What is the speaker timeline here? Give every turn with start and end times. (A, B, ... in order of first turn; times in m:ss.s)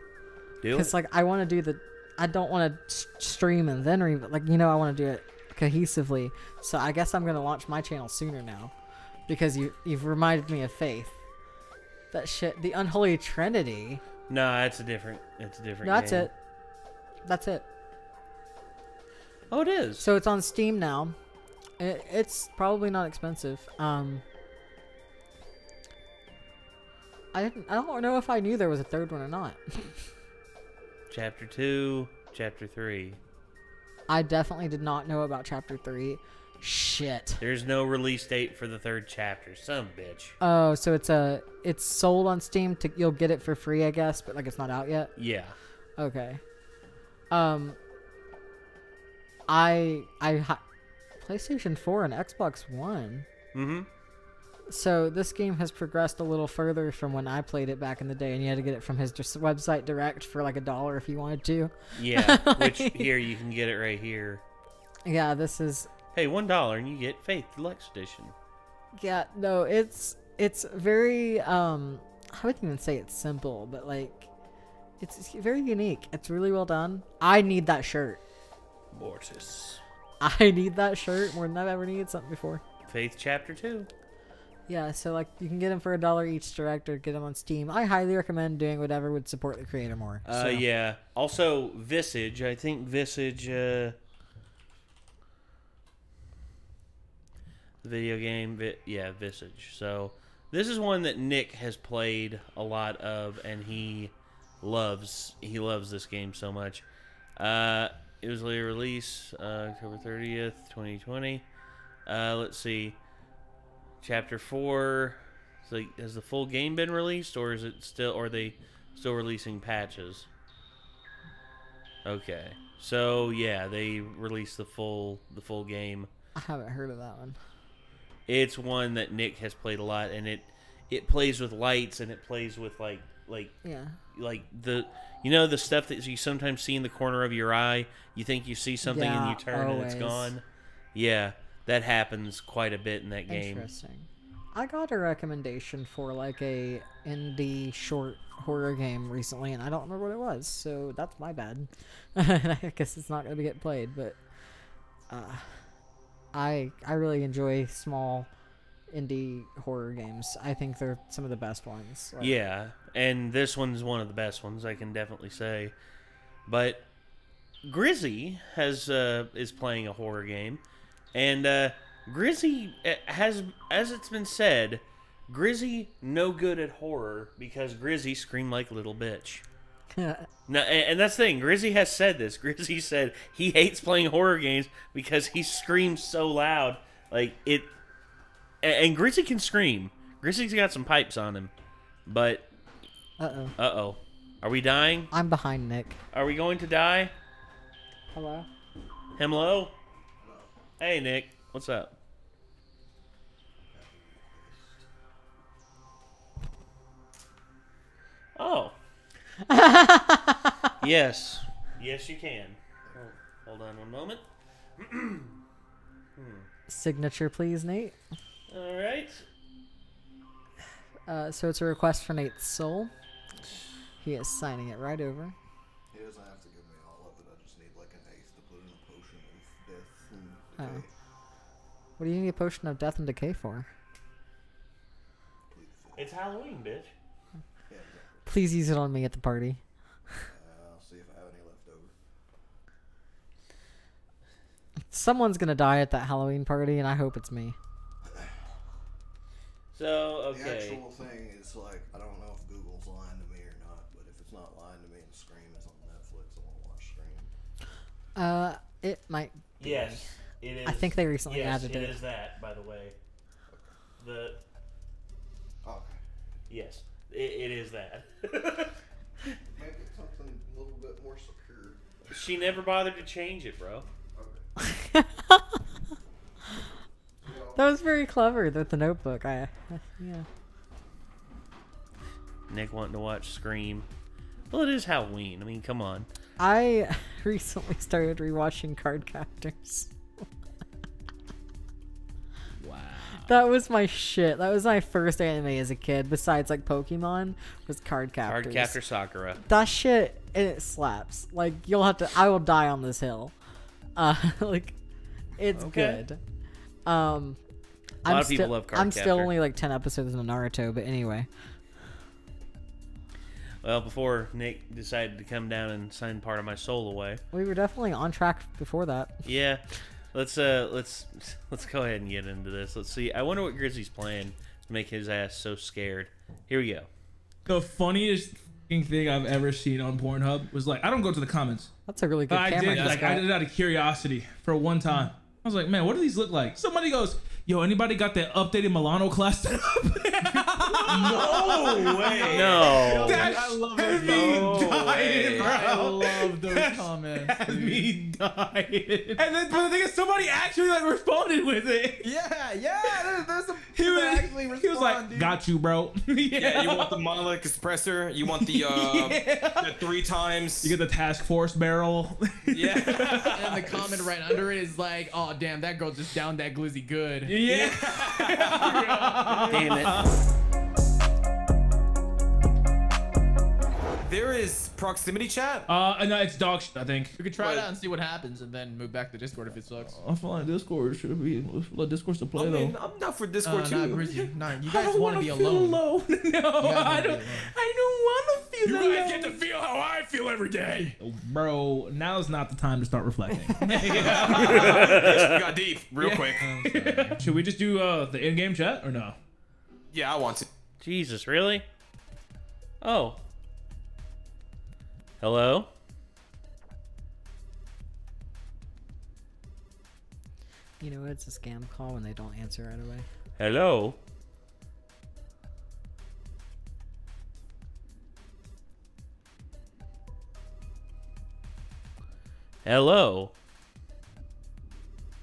0:00.6-0:00.9 A
0:00.7-0:08.7 B
0:09.3-0:11.2 B
0:12.1-0:14.0 B
0:14.3-0:16.3 A
0:15.8-0:16.3 B
0:17.2-0:17.6 B
0:19.5-0:20.0 A
0:20.0-0:21.2 B
0:21.8-0:24.2 B
0:27.3-0:30.0 B
0:31.1-0:33.2 A
0:34.1-0:37.4 B
0:37.4-0:40.3 A
0:40.4-0:45.1 B
0:45.2-0:45.5 A
0:46.0-0:46.4 B
0:47.3-0:47.8 B
0:49.5-0:50.6 B
0:51.2-0:53.3 B
0:53.5-0:53.9 A
0:54.7-1:03.1 B
1:01.9-1:04.4 A
1:05.0-1:05.9 B
1:06.1-1:08.3 A
1:09.0-1:14.3 B
1:15.0-1:18.2 B
1:18.9-1:19.8 A
1:20.2-1:22.6 B
1:22.9-1:23.9 A
1:24.7-1:30.6 B
1:30.2-1:34.0 A
1:37.8-1:46.8 A
1:47.4-1:51.4 A
1:52.0-1:53.0 A
1:54.0-2:00.3 A
2:02.0-2:06.1 A
2:06.4-2:07.4 B
2:08.3-2:13.6 A
2:13.6-2:14.0 B
2:14.1-2:23.7 A
2:18.8-2:20.3 B
2:23.3-2:34.2 B
2:35.1-2:35.6 B
2:36.3-2:38.3 B
2:38.9-2:42.3 B
2:42.2-2:45.7 A
2:46.4-2:46.9 A
2:47.6-2:59.4 A
3:00.0-3:00.3 B
3:00.5-3:07.7 A
3:08.6-3:11.5 A
3:12.0-3:12.4 A
3:13.2-3:13.5 B
3:13.6-3:15.1 A
3:15.1-3:16.0 B
3:16.1-3:17.1 A
3:18.1-3:18.5 B
3:19.2-3:19.7 A
3:20.2-3:20.5 C
3:20.8-3:21.9 A
3:23.7-3:24.8 C
3:28.4-3:28.7 A
3:29.5-3:30.6 B
3:30.8-3:34.2 A
3:32.8-3:33.1 C
3:34.8-3:35.4 A
3:36.2-3:36.5 A
3:36.7-3:38.0 B
3:38.5-3:39.2 A
3:41.1-3:42.9 B
3:44.0-3:45.4 B
3:45.9-3:50.9 C
3:50.6-3:50.8 B
3:52.0-3:53.7 B
3:55.5-3:56.1 C
3:56.0-3:56.9 A
3:57.7-3:58.3 C
3:58.3-3:59.6 B
4:00.3-4:01.9 C
4:04.9-4:07.6 B
4:08.1-4:08.3 C
4:09.7-4:10.8 A
4:10.3-4:17.3 C
4:18.2-4:20.1 B
4:19.6-4:23.0 A
4:20.6-4:22.0 B
4:24.0-4:24.4 A
4:25.6-4:26.0 C
4:26.5-4:28.7 A
4:29.5-4:32.5 C
4:32.1-4:33.8 A
4:34.1-4:34.4 C
4:34.7-4:35.6 B
4:37.2-4:37.7 C
4:37.5-4:40.3 B
4:42.5-4:43.9 A
4:44.5-4:46.1 A
4:46.4-4:49.9 B
4:52.6-4:53.3 D
4:53.2-4:58.8 B
4:58.2-4:59.4 A
4:59.4-5:03.3 B
5:04.0-5:04.7 B
5:05.4-5:06.2 B
5:05.5-5:06.0 A
5:06.8-5:07.4 B
5:08.0-5:11.3 B
5:08.0-5:09.3 A
5:13.6-5:17.2 A
5:17.3-5:19.2 B
5:19.2-5:19.6 A
5:20.1-5:26.9 A
5:27.5-5:31.7 D
5:31.9-5:33.2 B
5:32.3-5:52.0 D
5:32.7-5:33.1 E
5:40.8-5:48.0 F
5:40.8-5:42.7 E
5:42.3-5:43.3 A
5:44.0-5:45.5 E
5:44.8-5:45.5 A
5:52.0-5:55.4 F
5:53.7-5:57.0 D
5:56.3-6:00.8 E
5:58.2-5:59.9 D
6:00.6-6:03.7 D
6:02.5-6:04.4 E
6:03.3-6:07.4 F
6:07.2-6:10.1 D
6:07.4-6:08.7 E
6:08.7-6:09.6 F
6:09.5-6:10.0 A
6:14.0-6:15.7 E
6:15.7-6:17.2 D
6:17.2-6:20.0 F
6:17.4-6:17.7 E
6:19.9-6:22.8 D
6:22.4-6:24.2 E
6:23.4-6:25.8 F
6:24.6-6:29.5 D
6:26.6-6:27.5 F
6:28.6-6:30.0 F
6:30.3-6:35.1 D
6:33.6-6:34.5 F
6:33.6-6:36.5 E
6:34.5-6:35.5 A
6:36.0-6:39.2 D
6:36.3-6:37.3 F
6:39.9-6:40.5 E
6:40.8-6:41.6 A
6:42.8-6:43.2 A
6:45.2-6:45.7 A
6:50.8-6:53.1 B
6:53.4-6:54.0 A
7:02.6-7:03.3 A